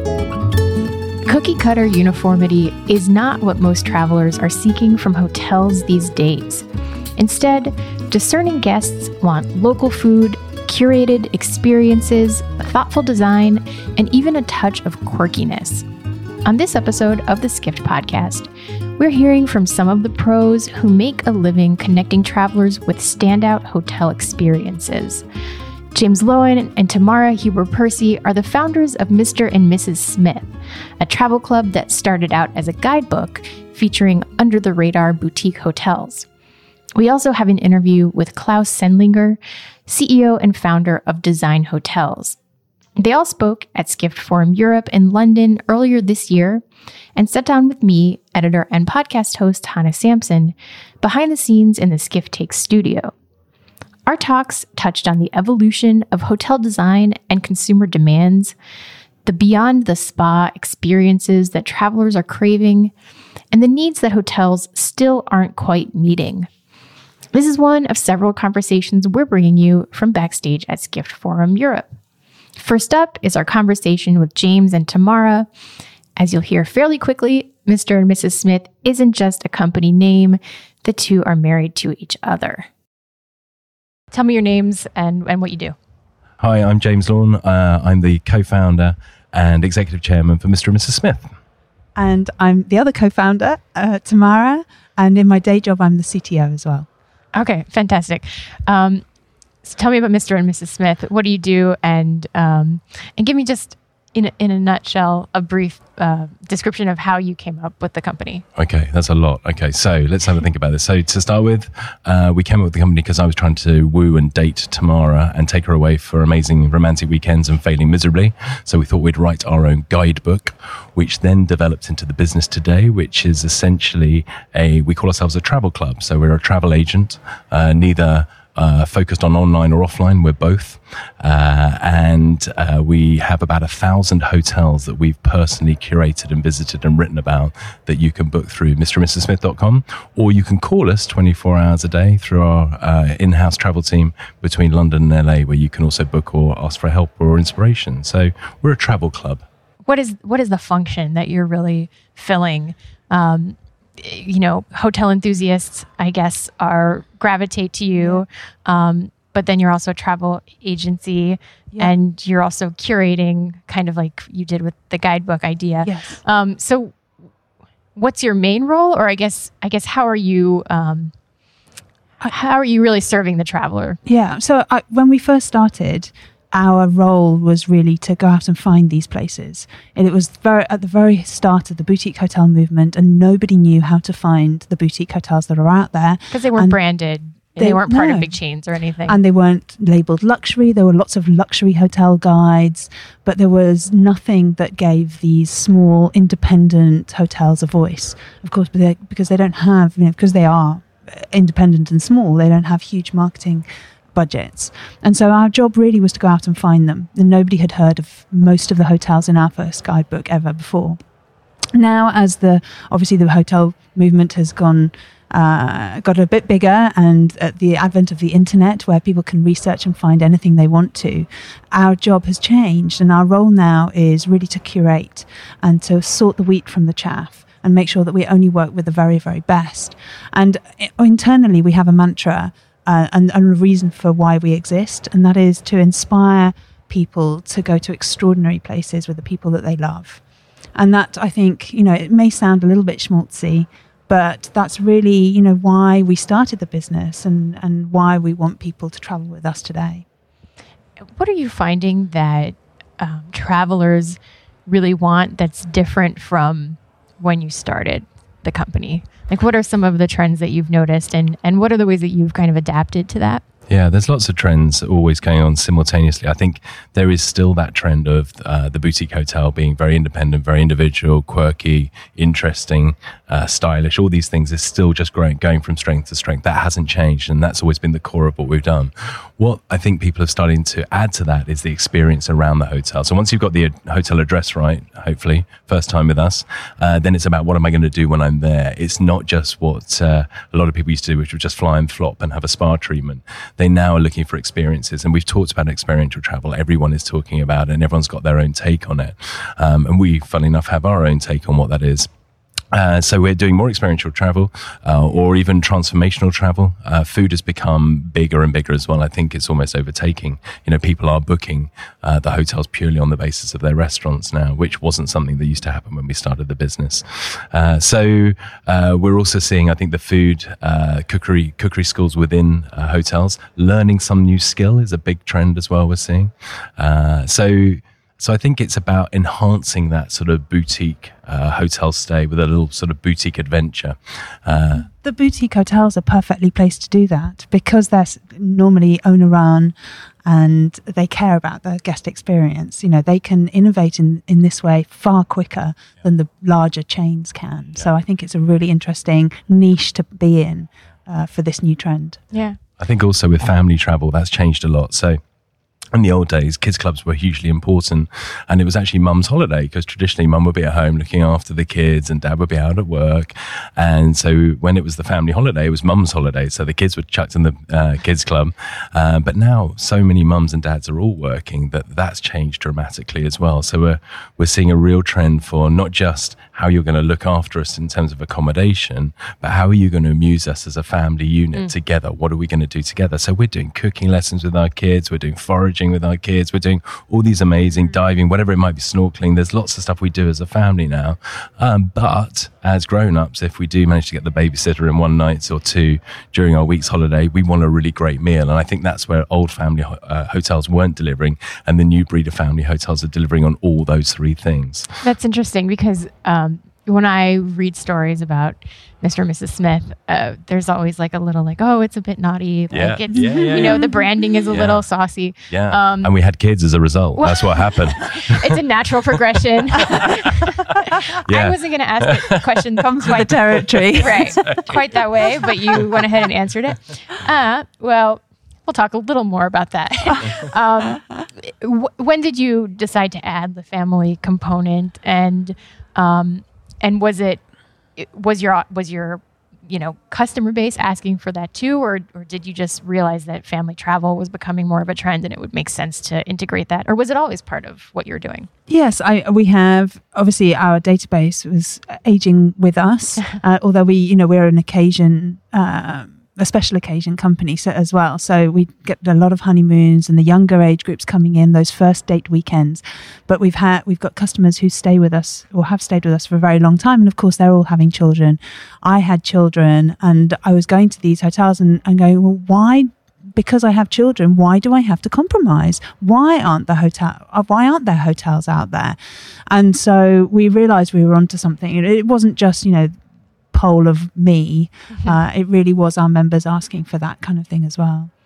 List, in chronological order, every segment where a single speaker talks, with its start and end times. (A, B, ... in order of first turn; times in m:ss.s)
0:01.2-0:06.6 A
0:07.2-0:15.8 A
0:16.4-0:25.2 A
0:25.9-0:36.3 A
0:37.0-0:42.4 A
0:43.0-0:46.6 A
0:47.2-0:53.1 A
0:54.0-0:58.5 A
0:59.2-1:02.9 A
1:03.5-1:06.5 A
1:07.3-1:12.0 A
1:12.6-1:15.5 A
1:16.2-1:22.7 A
1:24.1-1:25.8 A
1:26.4-1:31.3 B
1:32.0-1:36.9 C
1:37.3-1:39.0 A
1:39.6-1:48.4 A
1:48.6-2:29.4 B
2:29.8-2:47.0 A
2:38.0-2:38.2 C
2:45.8-2:46.2 C
2:48.0-2:51.1 A
2:52.2-2:54.0 A
2:54.0-3:06.8 C
3:06.3-3:09.2 A
3:07.6-3:08.4 C
3:09.1-3:31.0 C
3:31.7-4:00.2 C
4:00.7-4:10.0 C
4:11.1-4:23.4 A
4:23.7-5:02.1 B
5:02.7-5:34.9 B
5:34.7-5:52.2 C
5:52.3-5:52.6 A
5:52.8-5:55.2 B
5:55.9-6:44.9 B
6:45.0-6:56.1 A
6:52.7-6:53.8 B
6:53.1-6:54.0 C
6:54.5-6:54.8 B
6:55.5-6:58.6 B
6:57.2-7:17.4 A
6:59.8-7:00.1 B
7:00.9-7:02.5 B
7:02.8-7:04.6 C
7:04.5-7:04.8 B
7:18.0-7:28.5 A
7:28.7-8:02.9 C
8:03.5-8:08.1 C